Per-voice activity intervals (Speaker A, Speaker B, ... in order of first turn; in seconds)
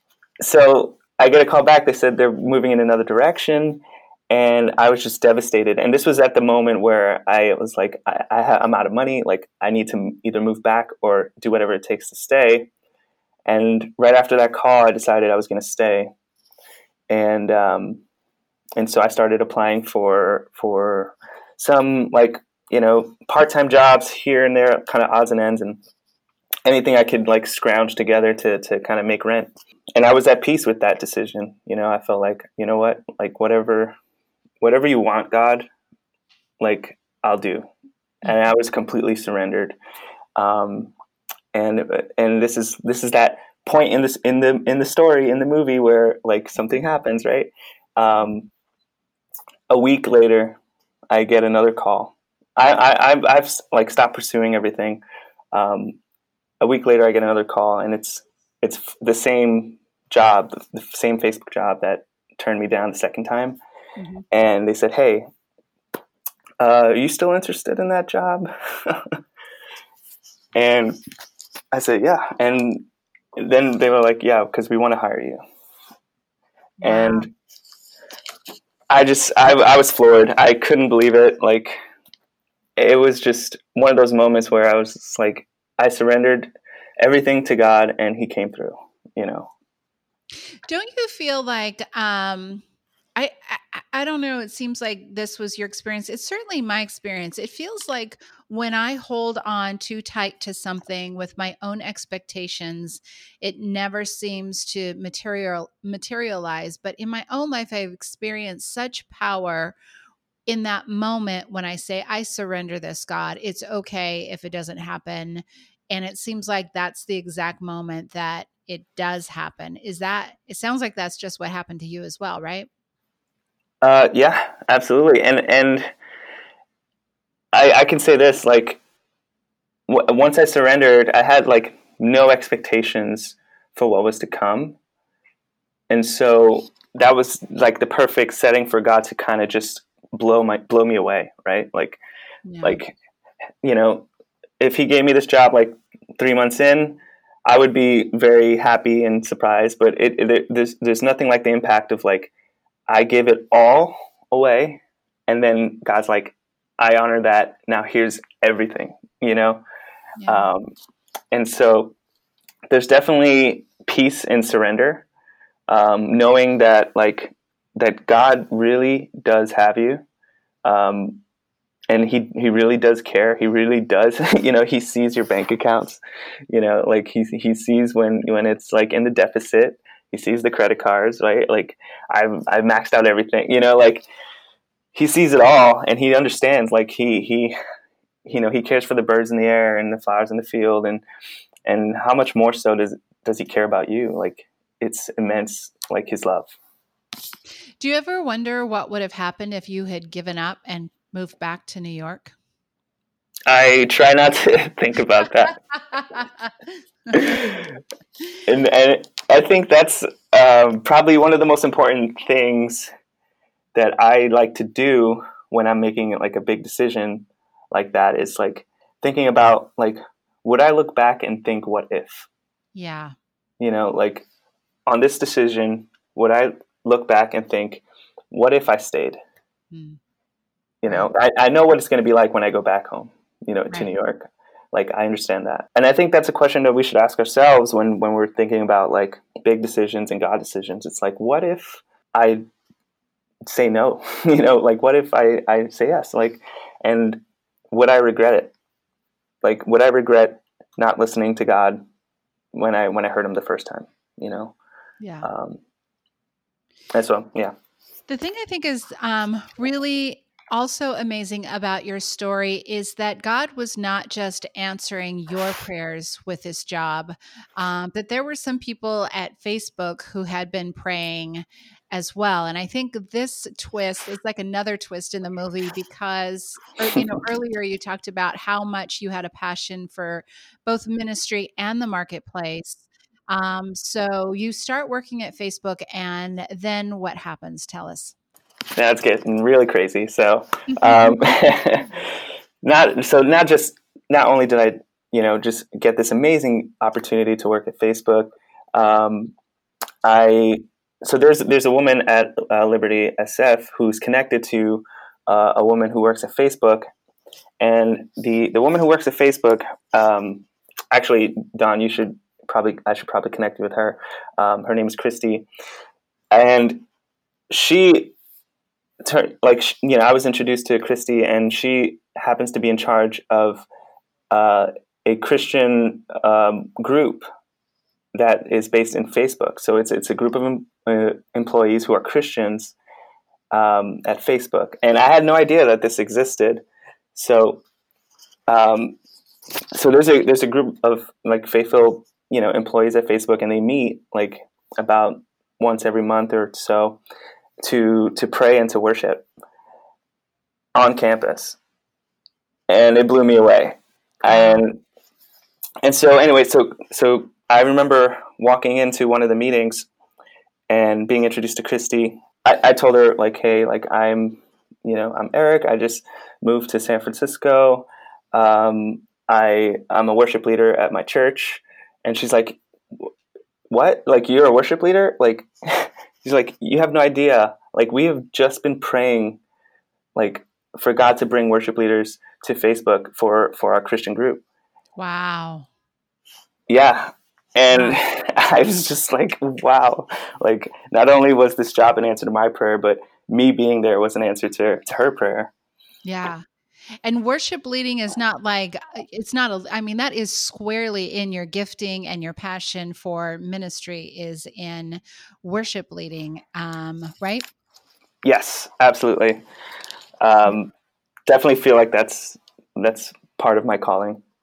Speaker A: 0.4-12.7, 13.5-16.1, 17.1-18.0, 18.8-25.8, 26.6-34.0, 34.6-35.7, 36.6-37.7, 38.2-39.8, 40.4-40.9, 41.5-48.5, 49.7-50.6, 51.1-55.0, 55.5-56.0, 56.6-63.6, 64.3-65.2, 66.6-69.2, 70.5-71.0, 71.7-72.9, 73.4-75.4, 76.8-77.3, 78.9-81.8, 82.8-89.5, 123.8-125.9, 127.5-128.8, 129.9-134.8, 135.9-142.0, 142.6-143.0, 143.6-144.1, 144.6-152.3, 152.9-159.6, 160.3-160.7, 161.3-161.9, 162.7-165.1, 165.7-170.0, 170.7-171.2, 171.9-184.1, 184.9-187.6, 188.2-191.1, 191.7-196.6, 203.5-205.6, 207.1-207.8, 208.5-212.9, 213.7-222.3, 223.6-224.3, 224.9-229.2, 230.8-242.4, 243.5-248.5, 249.4-251.8, 252.5-254.6, 255.2-255.6, 256.9-257.5, 288.8-299.3, 300.0-306.9, 307.6-315.5, 316.3-316.8, 317.5-318.1, 319.0-323.7, 324.3-327.3, 328.1-332.8, 333.5-337.6, 338.5-339.0, 339.7-347.0, 347.6-349.3, 350.8-351.6, 352.7-354.8, 355.8-359.9, 360.7-373.1, 373.7-379.4, 380.1-384.4, 386.7-395.5, 408.2-409.4, 410.2-410.7, 411.3-414.2
Speaker B: 64.0-64.2, 76.8-77.3, 90.7-92.6, 93.2-109.8, 110.5-122.7, 142.5-142.8, 160.2-160.5, 197.8-202.3, 222.8-223.1, 229.7-230.0, 255.0-255.3, 258.1-288.2, 290.7-291.3, 354.3-354.6, 385.0-385.7, 387.7-388.0, 396.1-396.4, 397.0-407.5